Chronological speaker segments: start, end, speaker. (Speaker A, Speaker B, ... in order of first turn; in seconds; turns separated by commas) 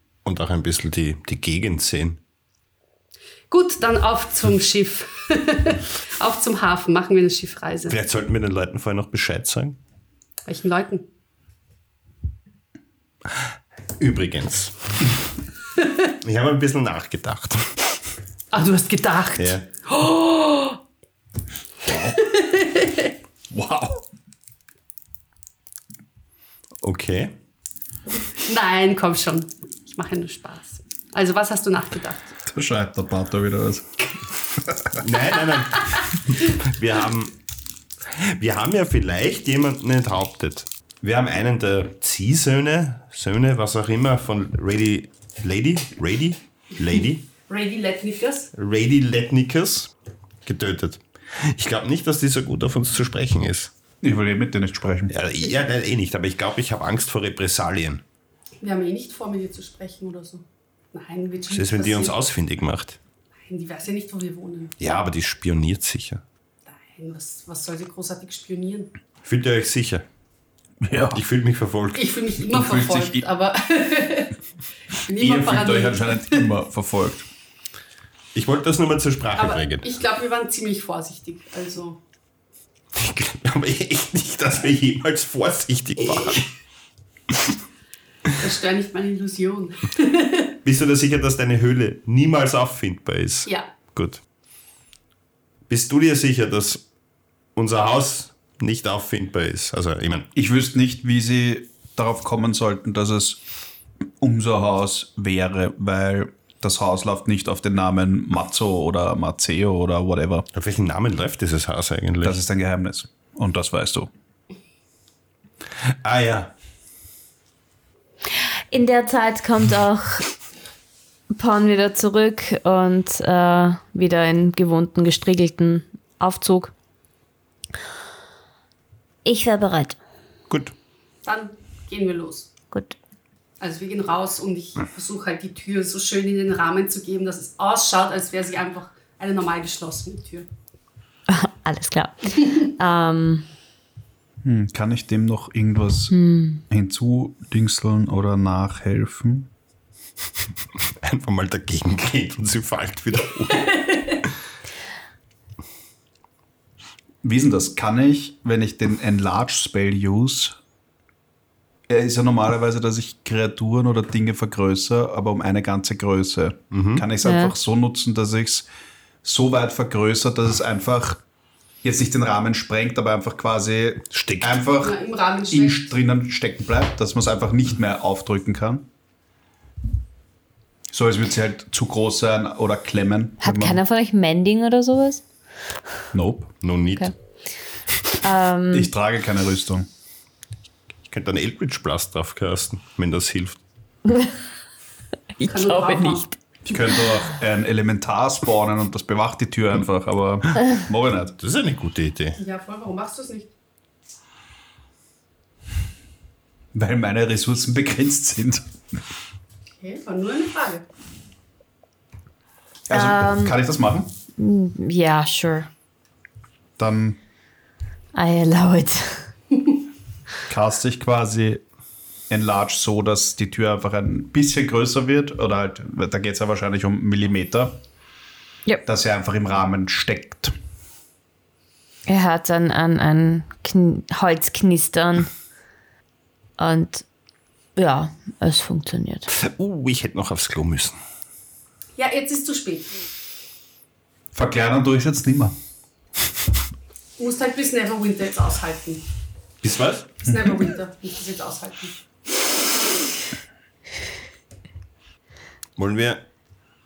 Speaker A: 0.2-2.2, Speaker B: 3.5-8.0, Speaker A: 7.9-9.8, Speaker B: 10.4-11.0, Speaker A: 14.0-15.1, Speaker A: 16.2-17.7, Speaker B: 18.5-20.8, Speaker A: 19.4-19.6, Speaker C: 21.9-22.2, Speaker B: 21.9-23.1, Speaker C: 23.5-24.0, Speaker A: 26.8-27.3, Speaker B: 28.4-32.4, Speaker C: 32.5-33.9, Speaker A: 34.9-37.3, Speaker B: 35.3-36.0, Speaker A: 38.1-47.3, Speaker B: 47.5-48.5, Speaker A: 48.5-49.9, Speaker A: 50.4-53.7, Speaker C: 54.0-55.1, Speaker A: 55.1-58.0, Speaker B: 58.6-62.1, Speaker A: 61.5-63.0, Speaker B: 63.4-64.7, Speaker A: 64.8-66.2, Speaker B: 66.7-68.9, Speaker A: 69.2-70.0, Speaker C: 70.8-71.2, Speaker A: 71.1-72.1, Speaker B: 71.9-74.3, Speaker C: 72.5-73.2, Speaker B: 75.0-76.4, Speaker C: 75.2-77.3, Speaker A: 78.3-79.9, Speaker B: 79.4-82.0, Speaker A: 82.9-86.5, Speaker B: 88.4-90.5, Speaker A: 90.6-94.2, Speaker A: 95.7-96.8, Speaker A: 97.5-100.3, Speaker C: 100.3-103.4, Speaker C: 104.2-110.5, Speaker A: 110.5-112.4, Speaker C: 112.2-114.1, Speaker A: 116.0-116.5, Speaker D: 118.7-120.3, Speaker D: 121.3-126.7, Speaker D: 129.2-130.0, Speaker B: 131.2-132.5, Speaker B: 133.6-140.5, Speaker D: 141.3-143.5, Speaker C: 144.4-146.1, Speaker D: 146.1-146.6, Speaker C: 146.7-149.5, Speaker A: 151.0-153.8, Speaker B: 153.5-154.2, Speaker C: 157.2-160.6, Speaker C: 161.9-168.7, Speaker A: 166.7-167.1, Speaker D: 167.2-167.5, Speaker C: 169.2-171.2, Speaker C: 171.8-175.0, Speaker A: 174.1-174.6, Speaker B: 174.8-175.9, Speaker C: 175.5-178.9, Speaker C: 180.9-183.8, Speaker D: 183.4-185.2, Speaker C: 186.1-186.5, Speaker A: 186.6-187.1, Speaker D: 188.2-188.9, Speaker C: 188.7-189.9, Speaker A: 191.1-193.6, Speaker D: 194.1-194.3, Speaker D: 195.4-196.3, Speaker B: 195.5-196.3, Speaker C: 196.6-201.3, Speaker A: 201.4-202.4, Speaker B: 202.4-203.5, Speaker C: 206.7-208.7, Speaker B: 209.8-210.8, Speaker C: 212.9-214.1, Speaker D: 212.9-213.6, Speaker D: 214.3-215.7, Speaker C: 216.8-217.2, Speaker D: 218.1-219.3, Speaker C: 220.5-221.6, Speaker C: 222.3-227.8, Speaker C: 228.8-230.5, Speaker D: 232.1-235.3, Speaker D: 236.6-237.0, Speaker D: 237.8-239.3, Speaker A: 239.3-241.0, Speaker B: 241.9-242.9, Speaker C: 244.3-245.5, Speaker B: 247.2-249.0, Speaker A: 249.6-250.1, Speaker B: 250.2-252.0, Speaker C: 250.3-250.5, Speaker A: 255.8-256.2